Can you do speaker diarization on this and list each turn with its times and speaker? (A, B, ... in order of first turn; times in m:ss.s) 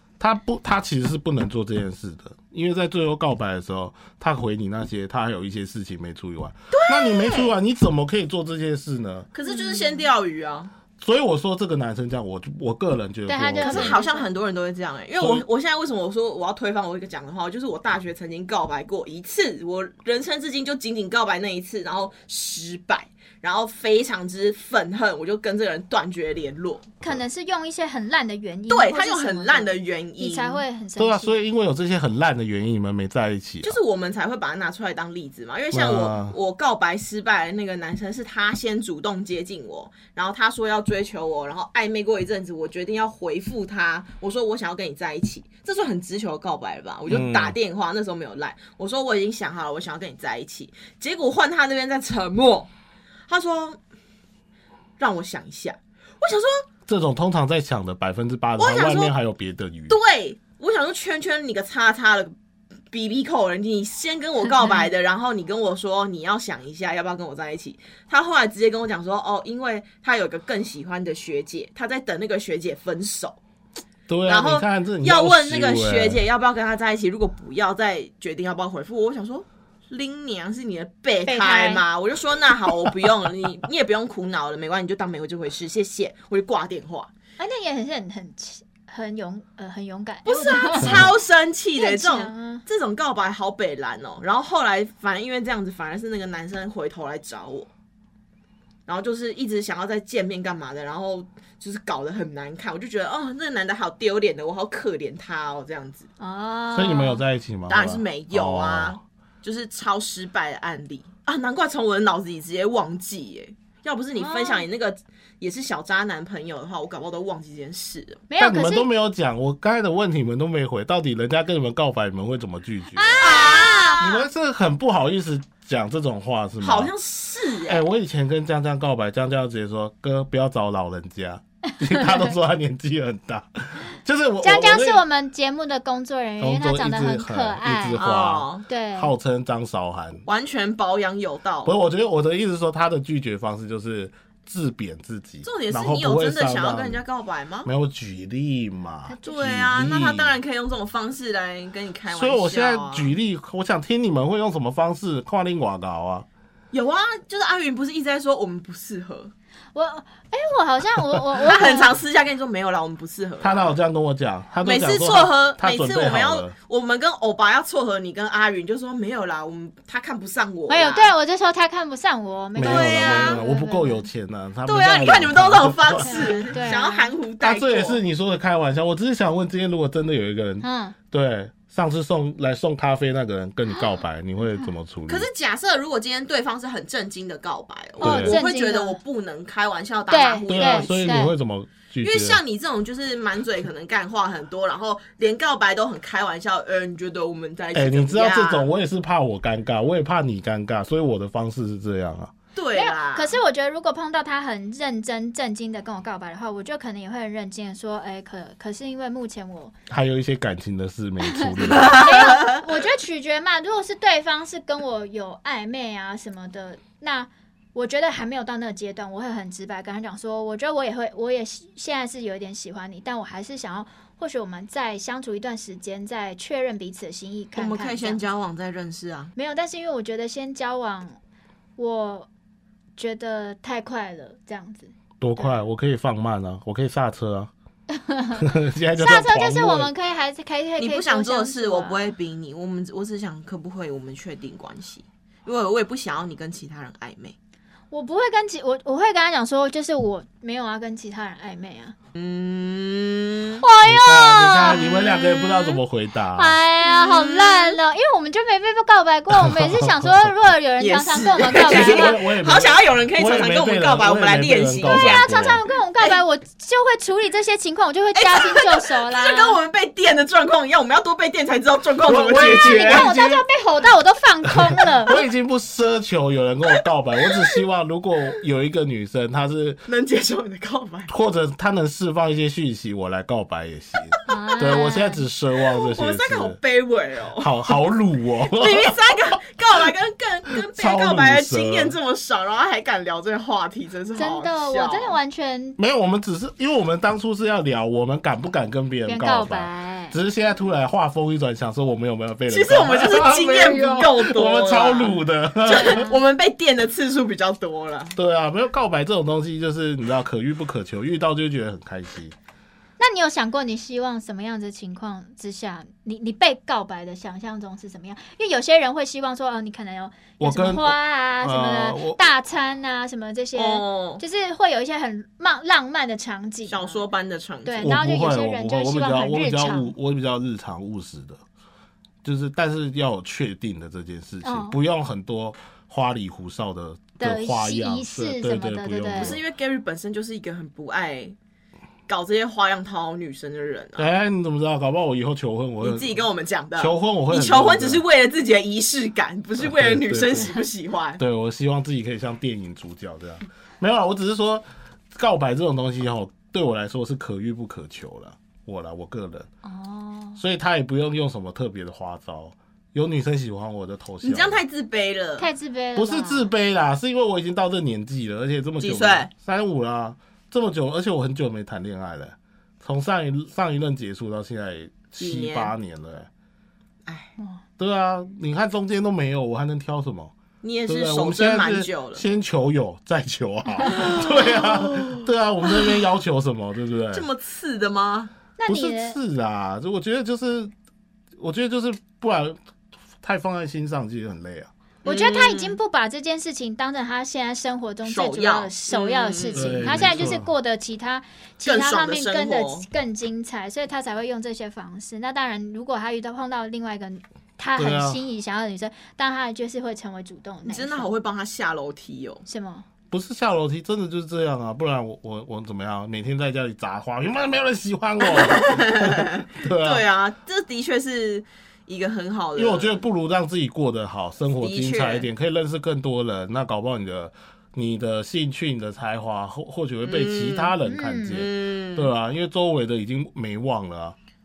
0:00.2-0:09.3 A
0:06.7-0:07.5 B
0:09.3-0:10.7 B
0:09.4-0:10.0 C
0:11.0-0:14.0 A
0:13.3-0:14.3 C
0:13.6-0:27.0 B
0:15.2-0:15.4 A
0:27.0-0:31.4 C
0:28.7-0:30.6 B
0:31.0-0:33.8 A
0:33.6-0:52.7 B
0:35.7-0:36.4 A
0:47.1-0:47.6 A
0:53.3-0:53.8 B
0:55.0-0:56.6 B
0:56.9-1:00.0 A
0:58.6-0:59.1 B
0:59.9-1:02.3 B
1:02.9-1:13.4 B
1:14.1-1:16.2 A
1:14.2-1:27.1 B
1:21.3-1:21.8 C
1:27.4-1:31.1 C
1:30.2-1:37.7 B
1:31.8-1:32.6 C
1:38.9-1:46.1 B
1:46.2-1:47.2 C
1:46.7-1:49.0 A
1:47.7-1:58.2 B
1:54.2-1:54.6 C
1:58.3-1:58.9 C
1:58.4-2:03.2 A
2:03.0-2:04.0 C
2:03.2-2:04.2 B
2:04.0-2:06.9 A
2:06.6-2:07.8 B
2:07.7-2:15.0 A
2:11.9-2:12.2 C
2:14.4-2:18.0 C
2:16.4-2:20.2 A
2:18.0-2:18.6 B
2:18.7-2:19.1 C
2:20.3-2:21.7 B
2:21.6-2:27.0 A
2:25.4-2:27.7 B
2:27.6-2:30.4 A
2:29.2-2:33.1 B
2:32.1-2:36.3 A
2:36.7-2:39.3 B
2:39.7-2:42.0 C
2:41.4-2:43.7 B
2:43.4-2:46.5 A
2:44.6-2:51.1 B
2:50.7-2:54.0 C
2:52.6-2:56.6 A
2:52.6-2:53.4 B
2:54.7-2:58.0 B
2:56.0-2:57.1 C
2:57.4-3:05.3 A
3:00.6-3:01.0 C
3:05.1-3:11.2 B
3:08.0-3:08.4 A
3:08.0-3:09.0 C
3:10.1-3:11.3 C
3:10.5-3:12.4 A
3:12.0-3:18.7 B
3:17.7-3:22.3 A
3:22.6-3:23.3 B
3:22.7-3:29.7 C
3:29.9-3:32.1 A
3:31.7-3:32.6 B
3:31.9-3:48.2 C
3:47.6-3:49.3 B
3:49.4-3:51.2 C
3:51.8-3:52.3 C
3:53.0-3:55.6 C
3:55.2-3:57.5 A
3:57.9-4:02.1 C
3:58.4-3:59.9 A
4:00.8-4:07.4 B
4:07.9-4:12.0 C
4:12.1-4:13.6 B
4:13.6-4:15.8 C
4:13.9-4:16.6 A
4:16.4-4:22.2 C
4:16.8-4:17.8 B
4:19.5-4:20.3 A
4:20.8-4:25.4 B
4:21.6-4:25.6 A
4:24.8-4:29.6 C
4:28.1-4:33.1 B
4:32.0-4:33.4 A
4:32.5-4:35.2 C
4:34.5-4:39.8 A
4:39.9-4:41.1 B
4:41.1-4:46.6 A
4:44.1-4:44.8 B
4:44.3-4:45.2 C
4:45.7-4:47.5 B
4:47.4-4:49.4 A
4:48.5-4:55.2 B
4:50.7-4:52.0 A
4:54.2-4:55.8 C
4:55.8-5:06.1 A
4:59.1-5:00.2 C
5:02.5-5:08.1 B
5:05.7-5:06.1 C
5:08.1-5:12.4 A
5:13.0-5:27.0 C
5:20.4-5:22.2 A
5:23.6-5:24.2 B
5:26.7-5:27.9 B
5:27.7-5:29.9 C
5:27.8-5:31.4 A
5:32.2-5:39.4 A
5:34.4-5:34.8 C
5:37.2-5:39.4 C
5:39.2-5:41.4 B
5:42.1-5:44.1 B
5:44.0-5:46.2 A
5:45.8-5:51.2 B
5:46.8-5:48.0 A
5:49.6-5:50.6 A
5:51.2-5:59.5 A
5:59.6-6:00.4 C
6:00.4-6:04.6 A
6:04.2-6:05.5 B
6:05.4-6:06.5 C
6:06.0-6:16.3 A
6:08.8-6:09.3 B
6:15.2-6:15.7 B
6:17.1-6:17.3 B
6:17.8-6:20.3 A
6:20.6-6:22.2 B
6:20.9-6:27.3 A
6:23.8-6:26.0 B
6:27.1-6:28.3 B
6:28.6-6:29.2 C
6:28.7-6:30.7 A
6:31.4-6:32.6 A
6:33.2-6:34.7 A
6:35.0-6:35.8 B
6:35.1-6:51.1 C
6:38.0-6:40.1 B
6:39.6-6:40.5 A
6:41.6-6:42.9 B
6:47.8-6:48.2 A
6:50.6-6:52.4 B
6:52.4-6:52.8 C
6:53.1-7:00.0 A
6:58.2-7:03.0 B
7:02.6-7:14.2 A
7:04.6-7:05.3 B
7:10.0-7:10.8 B
7:10.9-7:11.4 C
7:11.3-7:12.1 B